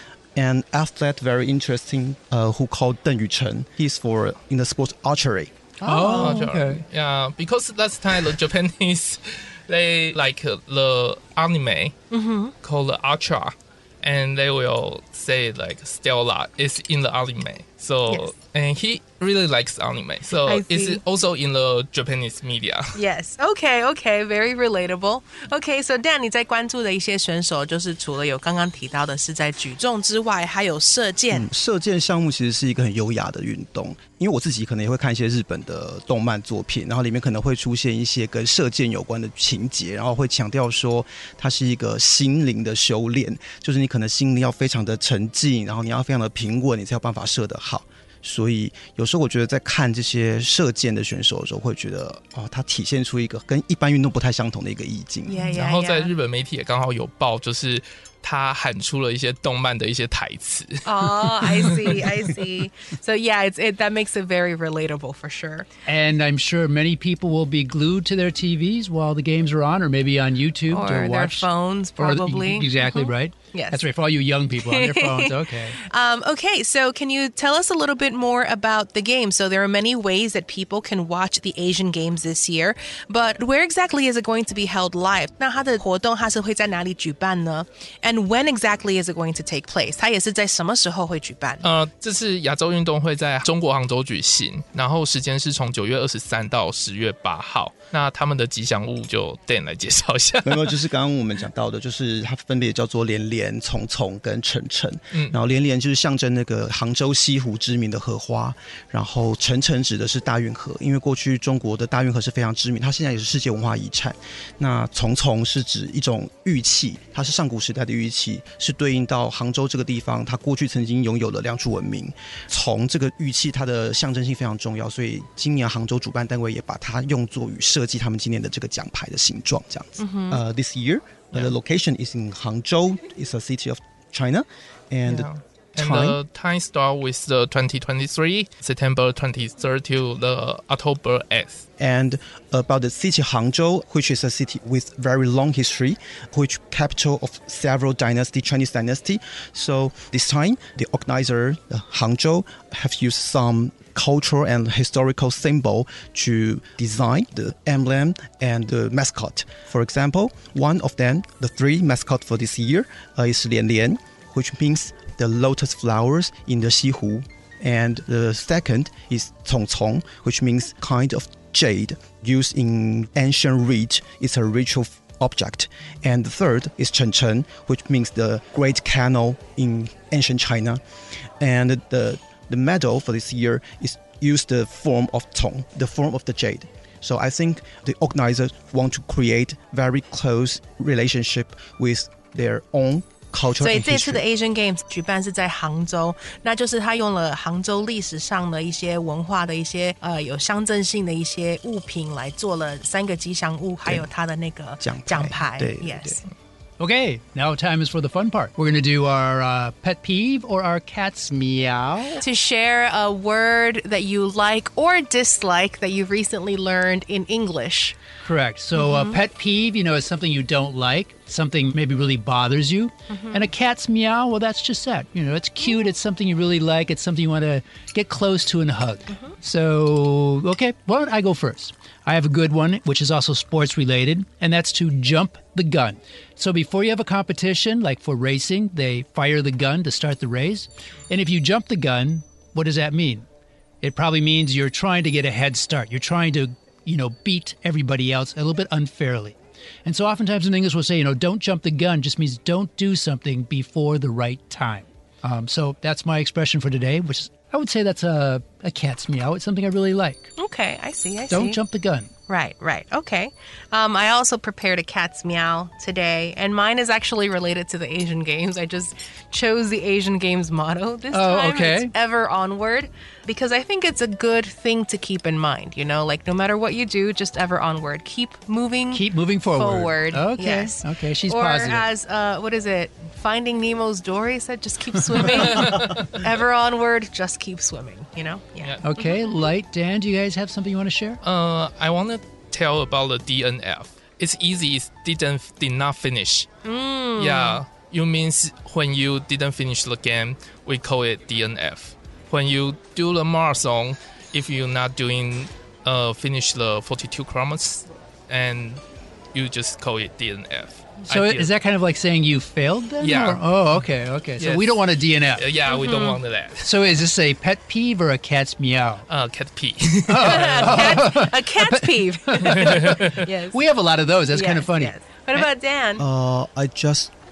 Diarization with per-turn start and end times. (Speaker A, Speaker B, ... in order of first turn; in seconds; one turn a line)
Speaker A: 0.4-5.7
Speaker B: 5.8-6.5
Speaker C: 5.8-6.8
Speaker D: 6.0-11.9
Speaker B: 12.1-12.5
Speaker D: 12.6-23.0
Speaker B: 20.4-21.0
Speaker B: 22.9-31.5
Speaker A: 31.3-55.5
Speaker B: 55.3-56.1
Speaker D: 55.5-61.9
Speaker B: 60.9-65.7
Speaker C: 65.9-75.8
Speaker B: 70.7-73.8
Speaker B: 74.6-91.7
Speaker D: 91.6-100.8
Speaker A: 100.4-136.2
Speaker B: 130.0-130.4
Speaker D: 135.1-141.6
Speaker A: 141.8-180.8
Speaker A: 181.4-194.2
Speaker B: 193.6-206.2
Speaker A: 204.8-206.2
Speaker C: 206.8-212.2
Speaker B: 212.2-218.0
Speaker C: 218.2-243.3
Speaker B: 218.8-219.2
Speaker B: 223.1-223.5
Speaker B: 229.1-229.4
Speaker C: 243.8-260.3
Speaker B: 260.4-261.6
Speaker C: 261.3-262.1
Speaker B: 262.3-289.3
Speaker C: 271.1-271.9
Speaker C: 278.9-281.9
Speaker D: 285.2-286.2
Speaker C: 288.8-291.2
Speaker D: 291.2-296.5
Speaker B: 296.6-297.6
Speaker D: 297.2-308.8
Speaker D: 309.3-311.5
Speaker C: 311.1-315.6
Speaker D: 313.0-313.4
Speaker D: 314.4-314.7
Speaker D: 315.4-316.6
Speaker B: 315.6-316.2
Speaker C: 316.6-319.1
Speaker D: 319.1-320.8
Speaker C: 320.1-324.9
Speaker B: 320.2-323.6
Speaker D: 322.4-323.2
Speaker B: 324.3-326.1
Speaker A: 326.0-327.1